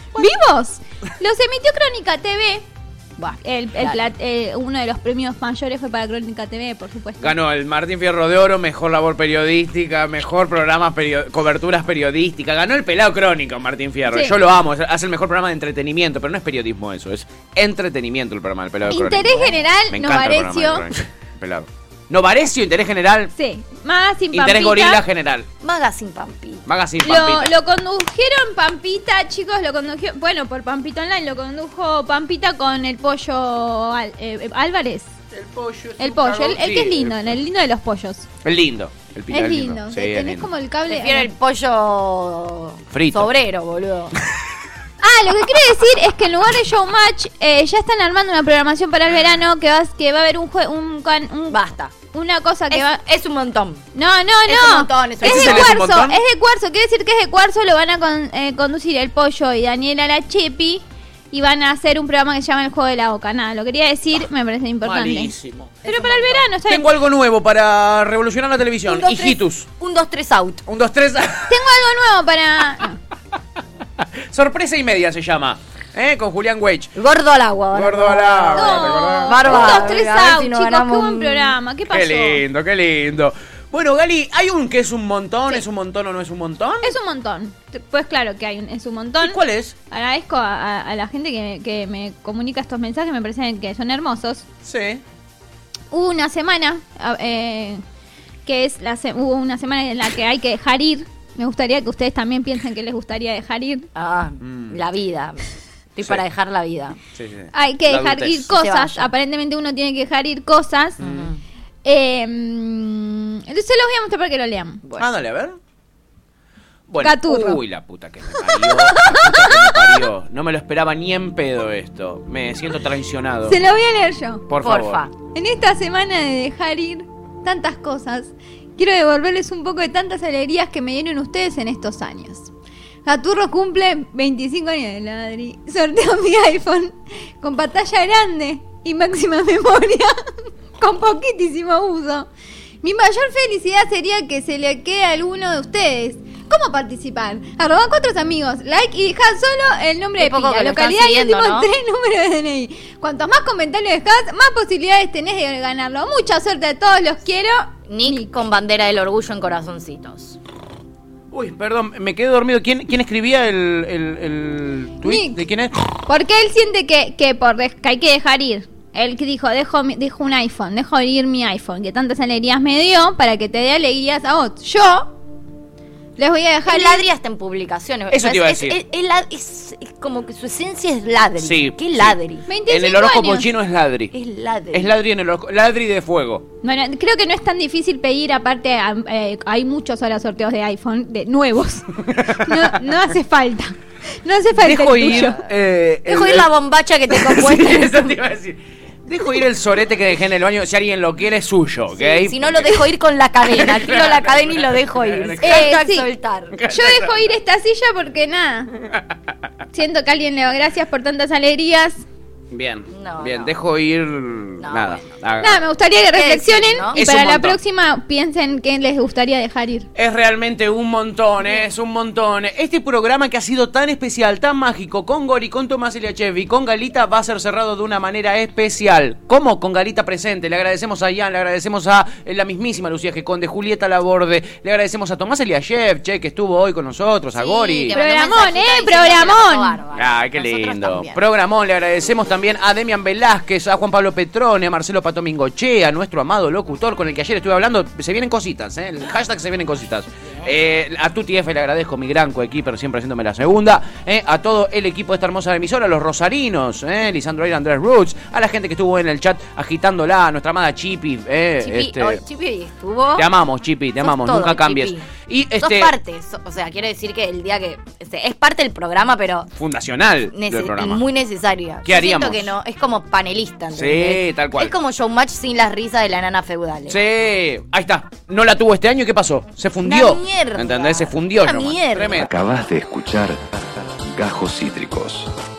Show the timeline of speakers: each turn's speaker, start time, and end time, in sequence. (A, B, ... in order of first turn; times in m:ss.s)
0:00.1-0:02.6 A
0:03.2-0:04.0 B
0:03.4-0:07.3 A
0:07.2-0:19.4 C
0:14.1-0:14.3 A
0:18.9-0:20.9 A
0:19.2-0:19.5 B
0:19.9-0:23.3 C
0:23.3-0:25.0 A
0:24.3-0:25.5 C
0:25.6-0:26.6 B
0:26.6-0:27.5 C
0:27.0-0:35.1 A
0:35.3-0:37.4 C
0:36.0-0:38.3 A
0:38.4-0:40.5 C
0:39.3-0:41.3 A
0:40.9-0:44.1 B
0:42.9-0:43.3 C
0:45.0-0:51.6 A
0:51.5-0:51.9 B
0:52.1-0:53.0 A
0:52.7-0:53.8 B
0:53.9-1:05.3 A
0:54.5-0:55.9 B
0:55.2-0:56.2 C
1:04.8-1:09.7 C
1:05.8-1:06.8 A
1:08.9-1:10.6 B
1:10.6-1:11.6 C
1:11.5-1:13.0 A
1:14.0-1:17.0 C
1:17.0-1:21.5 B
1:17.7-1:20.0 C
1:18.5-1:22.4 A
1:21.9-1:26.9 C
1:26.8-1:34.4 A
1:29.2-1:29.7 C
1:34.6-1:35.0 C
1:35.9-1:37.8 A
1:38.4-1:43.9 A
1:43.9-1:45.4 B
1:44.4-1:44.8 C
1:46.0-1:47.0 B
1:47.1-1:48.5 C
1:47.5-1:51.0 A
1:48.5-1:49.1 B
1:51.0-1:51.4 C
1:51.0-1:51.3 B
1:51.8-1:54.8 A
1:55.0-1:55.6 C
1:56.9-2:03.6 C
1:57.0-1:57.6 A
1:58.4-2:00.0 A
2:03.5-2:04.5 A
2:04.5-2:05.0 C
2:04.6-2:05.1 B
2:05.2-2:12.5 A
2:13.0-2:22.3 A
2:22.8-2:38.3 A
2:30.2-2:31.7 B
2:37.9-2:40.4 B
2:41.3-2:45.7 C
2:45.0-2:45.4 A
2:46.1-2:55.1 A
2:56.2-2:57.0 A
2:56.7-3:02.4 B
2:58.1-2:58.8 C
3:01.4-3:04.1 C
3:02.5-3:03.5 A
3:04.1-3:04.9 B
3:04.7-3:06.4 C
3:06.6-3:15.4 A
3:12.1-3:12.7 C
3:14.6-3:16.5 C
3:15.0-3:15.3 B
3:16.1-3:18.2 B
3:17.1-3:22.9 C
3:21.9-3:26.6 B
3:23.4-3:25.7 C
3:25.4-3:26.1 A
3:26.5-3:27.3 C
3:26.7-3:28.7 A
3:29.7-3:32.0 A
3:32.5-3:35.6 C
3:32.9-3:33.5 B
3:34.6-3:35.0 B
3:35.4-3:39.9 A
3:36.1-3:37.0 B
3:36.9-3:37.6 C
3:39.9-3:58.0 C
3:57.3-4:01.2 B
3:57.9-3:59.8 A
3:59.9-4:22.2 C
4:21.6-4:23.3 B
4:23.2-4:25.9 C
4:24.0-4:25.0 B
4:25.6-4:29.5 B
4:29.6-4:31.0 C
4:30.3-4:37.0 B
4:31.8-4:32.5 C
4:33.7-4:34.7 C
4:36.9-4:42.3 C
4:39.8-4:42.3 B
4:42.2-4:45.3 D